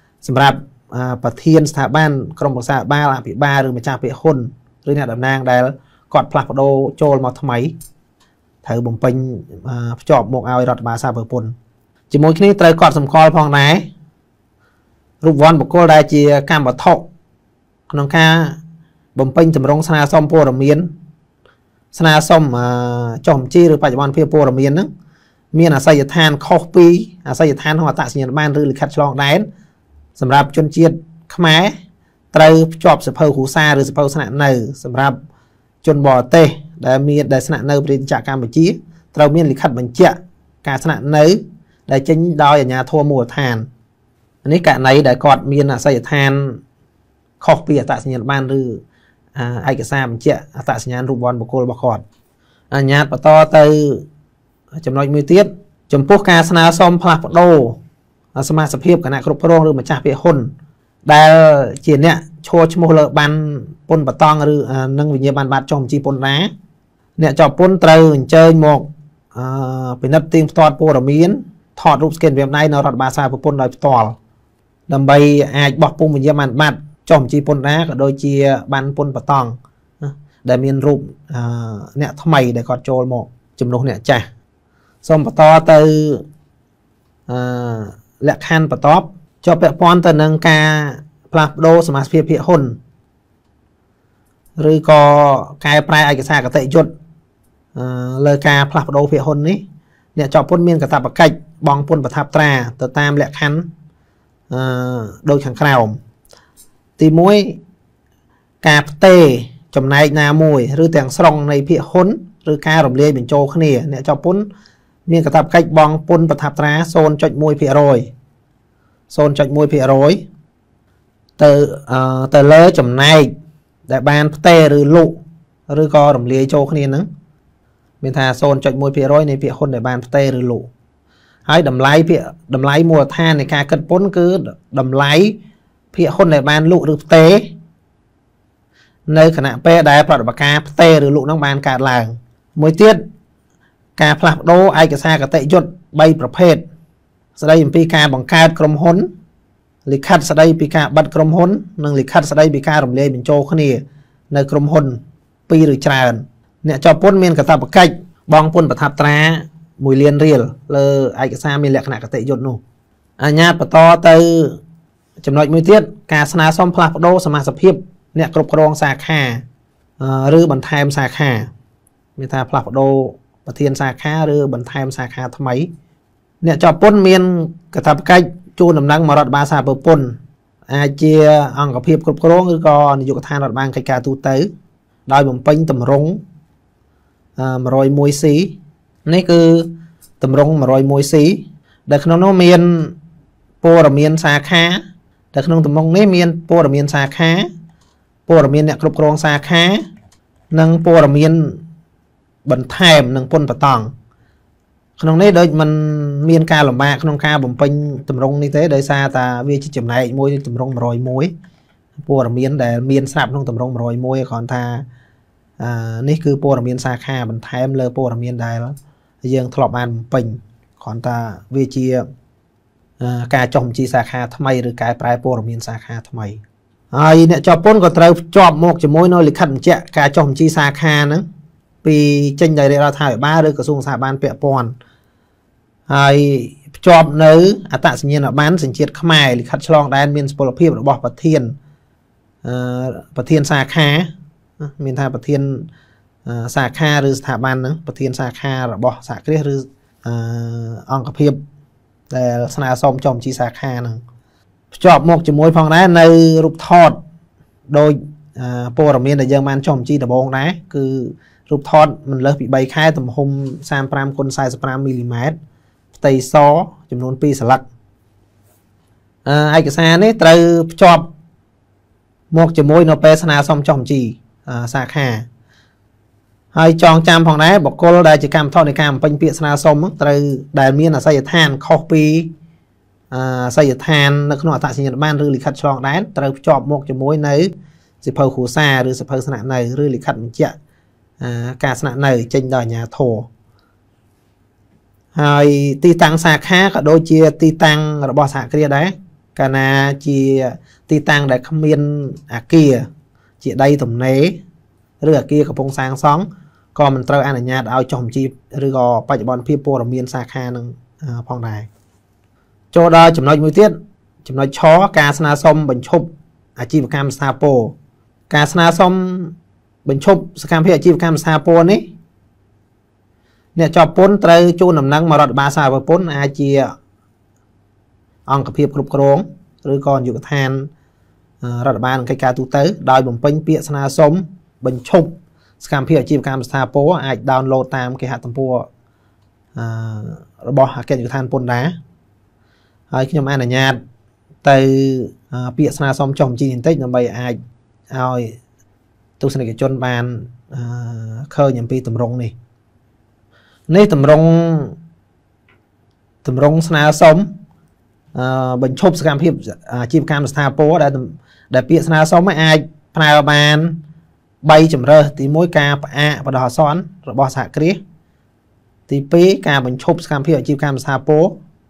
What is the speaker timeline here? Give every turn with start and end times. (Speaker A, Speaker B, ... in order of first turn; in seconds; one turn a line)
Speaker A: 0.2-7.7
Speaker A: 8.6-11.5
Speaker A: 12.1-13.8
Speaker A: 15.2-17.0
Speaker A: 17.9-18.6
Speaker A: 19.1-20.9
Speaker A: 21.9-24.9
Speaker A: 25.5-29.4
Speaker A: 30.1-31.7
Speaker A: 32.3-35.2
Speaker A: 35.8-43.7
Speaker A: 44.4-46.6
Speaker A: 47.4-48.8
Speaker A: 49.3-52.0
Speaker A: 52.7-54.0
Speaker A: 54.8-57.8
Speaker A: 58.3-60.5
Speaker A: 61.0-66.5
Speaker A: 67.2-74.2
Speaker A: 74.9-84.3
Speaker A: 85.0-86.2
Speaker A: 87.3-92.8
Speaker A: 94.6-96.9
Speaker A: 97.7-99.6
Speaker A: 100.2-103.7
Speaker A: 104.5-106.0
Speaker A: 107.0-107.6
Speaker A: 108.6-114.5
Speaker A: 115.1-118.1
Speaker A: 119.1-120.2
Speaker A: 121.4-123.3
Speaker A: 123.9-127.1
Speaker A: 128.0-130.7
Speaker A: 131.4-135.3
Speaker A: 135.9-137.5
Speaker A: 139.1-143.0
Speaker A: 144.0-146.6
Speaker A: 147.3-149.1
Speaker A: 149.8-162.6
Speaker A: 163.2-164.6
Speaker A: 165.2-169.4
Speaker A: 170.0-171.5
Speaker A: 172.2-175.7
Speaker A: 176.4-184.5
Speaker A: 185.1-186.2
Speaker A: 187.4-188.5
Speaker A: 189.1-189.7
Speaker A: 190.2-192.9
Speaker A: 193.6-194.8
Speaker A: 195.3-197.5
Speaker A: 198.3-199.8
Speaker A: 200.5-201.6
Speaker A: 202.4-203.9
Speaker A: 205.0-211.3
Speaker A: 212.0-214.8
Speaker A: 215.6-222.1
Speaker A: 223.0-226.4
Speaker A: 226.9-231.2
Speaker A: 231.8-234.7
Speaker A: 235.9-241.6
Speaker A: 242.4-245.7
Speaker A: 246.2-251.4
Speaker A: 252.1-254.0
Speaker A: 254.7-257.0
Speaker A: 257.7-265.4
Speaker A: 265.9-267.7
Speaker A: 269.2-271.1
Speaker A: 272.3-275.2
Speaker A: 276.5-282.3
Speaker A: 283.1-290.5
Speaker A: 291.2-293.3
Speaker A: 295.1-302.9
Speaker A: 303.4-304.4
Speaker A: 305.0-311.7
Speaker A: 312.7-317.7
Speaker A: 318.3-321.8
Speaker A: 323.6-326.7
Speaker A: 328.2-330.7
Speaker A: 331.4-338.7
Speaker A: 339.6-341.7
Speaker A: 342.9-343.8
Speaker A: 344.4-347.4
Speaker A: 347.9-348.4
Speaker A: 349.2-352.3
Speaker A: 353.7-354.7
Speaker A: 356.2-357.3
Speaker A: 358.1-363.8
Speaker A: 364.4-367.8
Speaker A: 368.9-371.4